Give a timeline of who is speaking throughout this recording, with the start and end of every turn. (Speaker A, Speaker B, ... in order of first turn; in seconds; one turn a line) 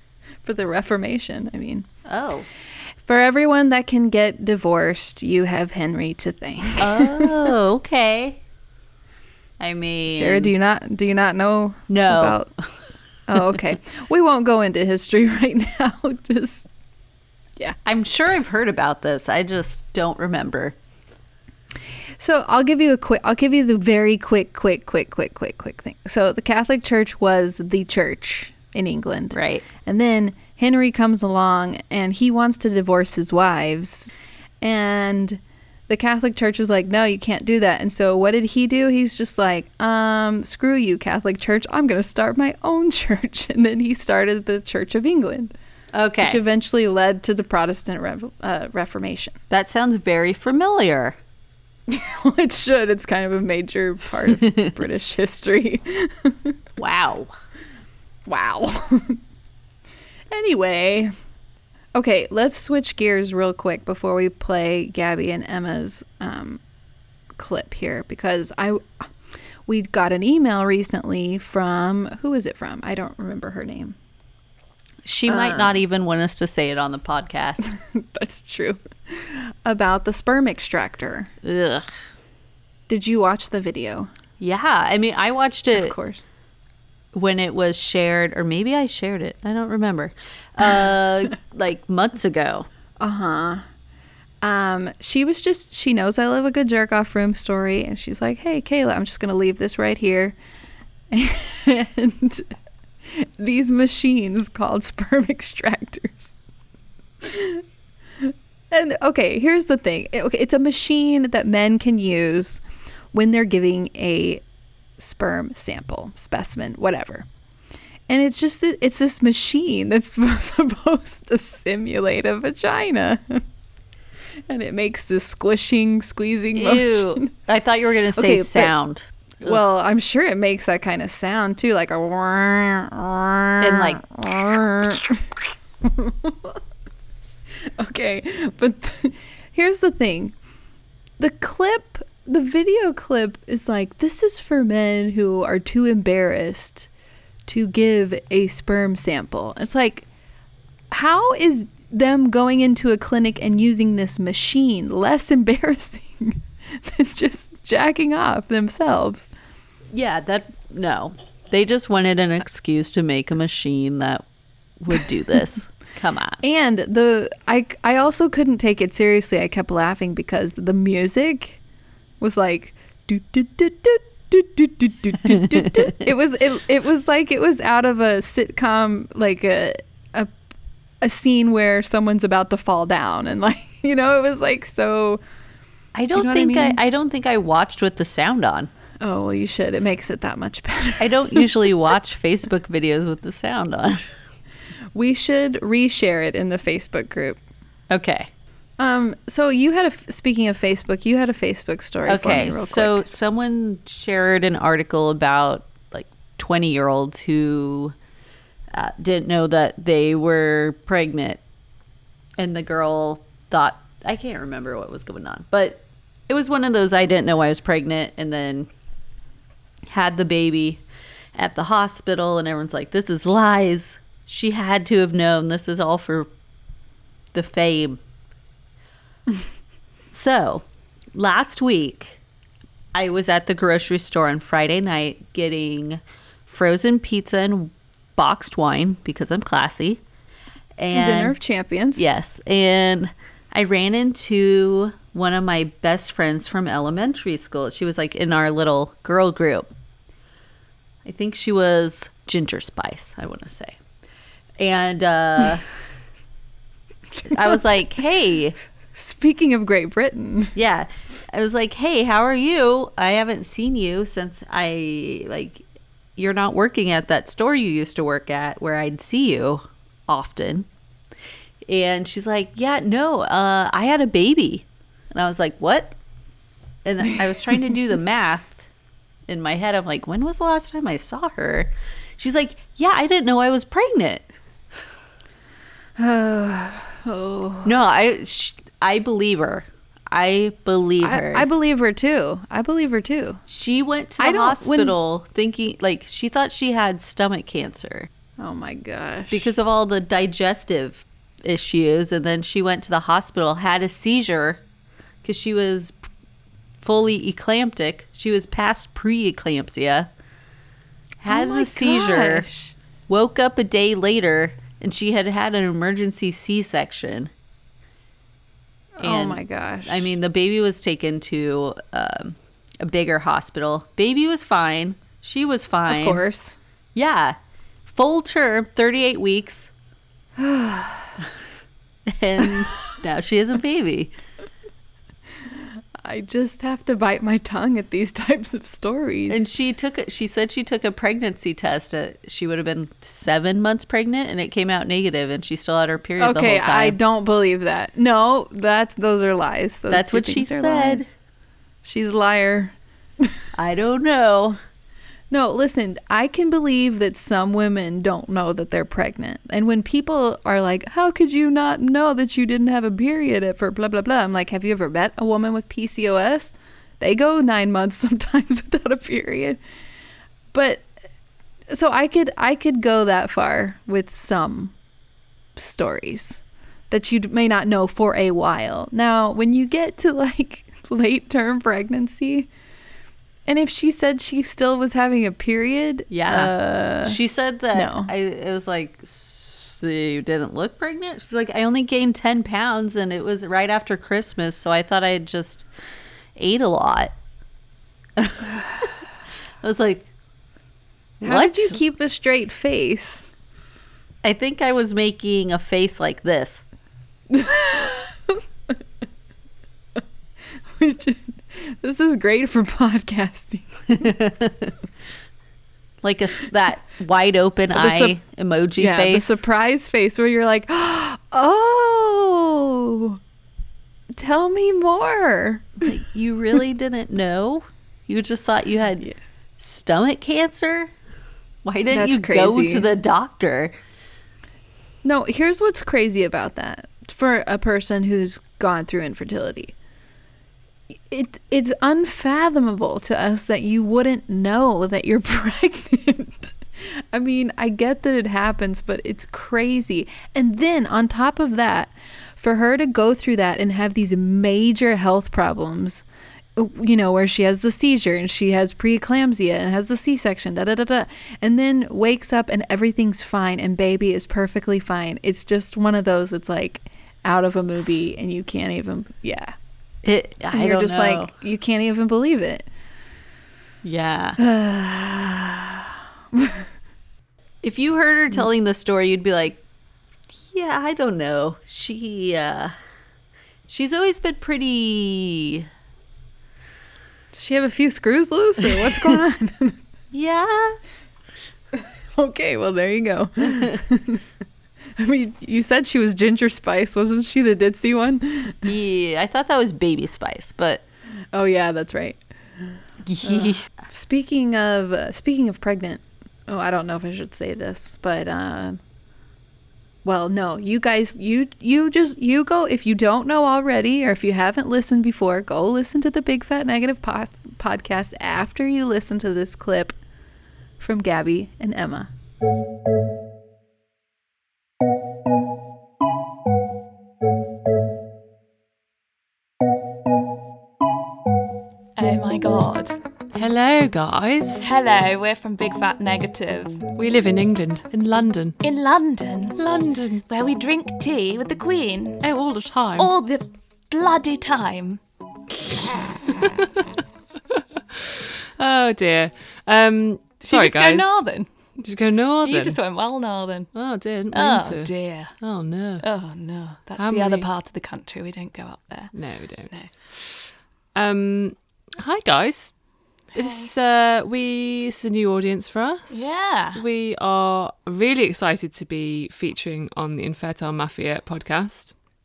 Speaker A: 0.4-1.9
Speaker B: 2.0-2.5
Speaker A: 3.1-7.5
Speaker B: 6.8-8.4
Speaker B: 9.6-10.5
Speaker A: 10.1-12.5
Speaker B: 11.9-12.4
Speaker A: 13.3-16.7
Speaker B: 17.9-20.8
Speaker A: 22.2-45.5
Speaker B: 29.3-29.6
Speaker B: 45.9-46.4
Speaker A: 46.2-49.4
Speaker B: 49.5-51.2
Speaker A: 51.9-56.5
Speaker B: 56.8-57.3
Speaker A: 58.3-59.2
Speaker A: 60.3-61.1
Speaker A: 62.0-66.6
Speaker A: 67.4-69.1
Speaker A: 69.7-74.0
Speaker B: 75.0-77.7
Speaker A: 75.3-75.8
Speaker A: 77.7-81.3
Speaker B: 81.4-81.9
Speaker A: 82.9-84.1
Speaker B: 84.4-85.9
Speaker A: 85.8-86.2
Speaker B: 87.1-92.7
Speaker A: 93.0-93.7
Speaker A: 94.4-100.4
Speaker A: 101.1-102.5
Speaker A: 103.1-106.4
Speaker A: 107.2-107.6
Speaker A: 108.2-112.6
Speaker A: 113.1-114.4
Speaker A: 115.0-117.3
Speaker A: 118.1-123.4
Speaker A: 124.5-127.3
Speaker B: 126.5-129.6
Speaker A: 128.2-128.7
Speaker A: 129.4-135.3
Speaker B: 133.6-134.0
Speaker A: 135.8-136.6
Speaker A: 137.8-140.3
Speaker A: 141.2-146.9
Speaker A: 147.5-150.1
Speaker A: 150.9-159.3
Speaker B: 159.9-164.2
Speaker B: 164.8-166.4
Speaker A: 166.4-171.6
Speaker A: 172.2-180.3
Speaker A: 181.0-185.2
Speaker B: 185.9-188.7
Speaker A: 186.1-186.8
Speaker A: 189.0-191.5
Speaker B: 191.0-194.0
Speaker A: 194.9-197.4
Speaker B: 197.9-198.3
Speaker A: 198.8-203.1
Speaker B: 202.1-207.9
Speaker B: 208.7-211.4
Speaker B: 212.4-218.7
Speaker B: 219.9-220.8
Speaker B: 221.3-226.3
Speaker B: 227.3-228.0
Speaker B: 230.1-232.2
Speaker B: 232.9-240.0
Speaker B: 240.8-241.4
Speaker A: 240.9-242.1
Speaker B: 242.0-249.7
Speaker B: 251.0-253.8
Speaker B: 254.6-255.7
Speaker B: 257.3-258.6
Speaker A: 258.9-260.5
Speaker B: 260.6-265.6
Speaker B: 266.2-270.7
Speaker B: 271.6-276.0
Speaker B: 276.9-278.7
Speaker B: 279.3-284.3
Speaker A: 286.0-287.8
Speaker B: 287.6-291.5
Speaker A: 291.0-293.4
Speaker B: 293.5-298.1
Speaker A: 294.2-295.0
Speaker A: 298.4-299.5
Speaker B: 299.3-304.6
Speaker B: 305.2-306.0
Speaker B: 306.8-310.1
Speaker B: 311.2-312.5
Speaker A: 311.3-312.8
Speaker B: 313.1-317.3
Speaker A: 319.0-320.1
Speaker B: 319.0-326.2
Speaker A: 325.9-326.6
Speaker B: 326.9-329.7
Speaker A: 330.4-331.2
Speaker B: 332.1-334.1
Speaker A: 336.0-339.4
Speaker B: 339.3-347.0
Speaker A: 346.2-351.1
Speaker B: 349.9-351.1
Speaker A: 351.8-353.2
Speaker B: 353.6-354.6
Speaker A: 355.3-369.6
Speaker A: 370.5-370.9
Speaker A: 371.7-374.7
Speaker A: 375.6-382.5
Speaker A: 383.5-387.2
Speaker B: 386.1-395.7
Speaker A: 387.7-388.1
Speaker B: 396.4-397.1
Speaker B: 398.2-398.9
Speaker B: 399.6-400.1
Speaker B: 401.2-401.8
Speaker A: 401.2-403.3
Speaker B: 404.2-406.6
Speaker A: 407.3-408.4
Speaker A: 410.7-414.1
Speaker B: 414.0-414.7
Speaker B: 416.0-419.4
Speaker A: 417.7-418.2
Speaker A: 418.8-423.2
Speaker A: 424.2-425.9
Speaker B: 425.8-430.9
Speaker B: 431.6-433.7
Speaker A: 431.9-432.9
Speaker A: 435.0-439.7
Speaker A: 441.1-456.0
Speaker A: 456.6-469.6
Speaker B: 470.0-471.3
Speaker A: 470.5-472.7
Speaker B: 473.8-474.4
Speaker A: 474.4-476.6
Speaker B: 477.6-479.6
Speaker B: 480.5-482.7
Speaker B: 483.7-485.7
Speaker A: 487.3-489.8
Speaker B: 490.1-490.8
Speaker A: 492.1-494.2
Speaker A: 495.0-498.7
Speaker B: 498.6-500.8
Speaker A: 501.3-508.8
Speaker B: 503.1-503.7
Speaker A: 510.0-520.0
Speaker A: 520.8-522.1
Speaker C: 532.0-533.0
Speaker D: 533.3-534.7
Speaker C: 534.6-536.9
Speaker D: 537.0-538.6
Speaker C: 538.6-539.6
Speaker D: 539.6-540.2
Speaker C: 540.3-542.2
Speaker D: 542.2-543.1
Speaker C: 543.0-545.0
Speaker D: 548.6-551.2
Speaker C: 550.4-551.5
Speaker D: 551.8-552.8
Speaker C: 552.4-553.7
Speaker D: 553.7-556.0
Speaker C: 554.3-555.4
Speaker C: 556.0-559.9
Speaker D: 557.0-557.5
Speaker D: 559.1-562.8
Speaker C: 563.3-563.7
Speaker D: 563.3-571.9
Speaker C: 566.1-566.8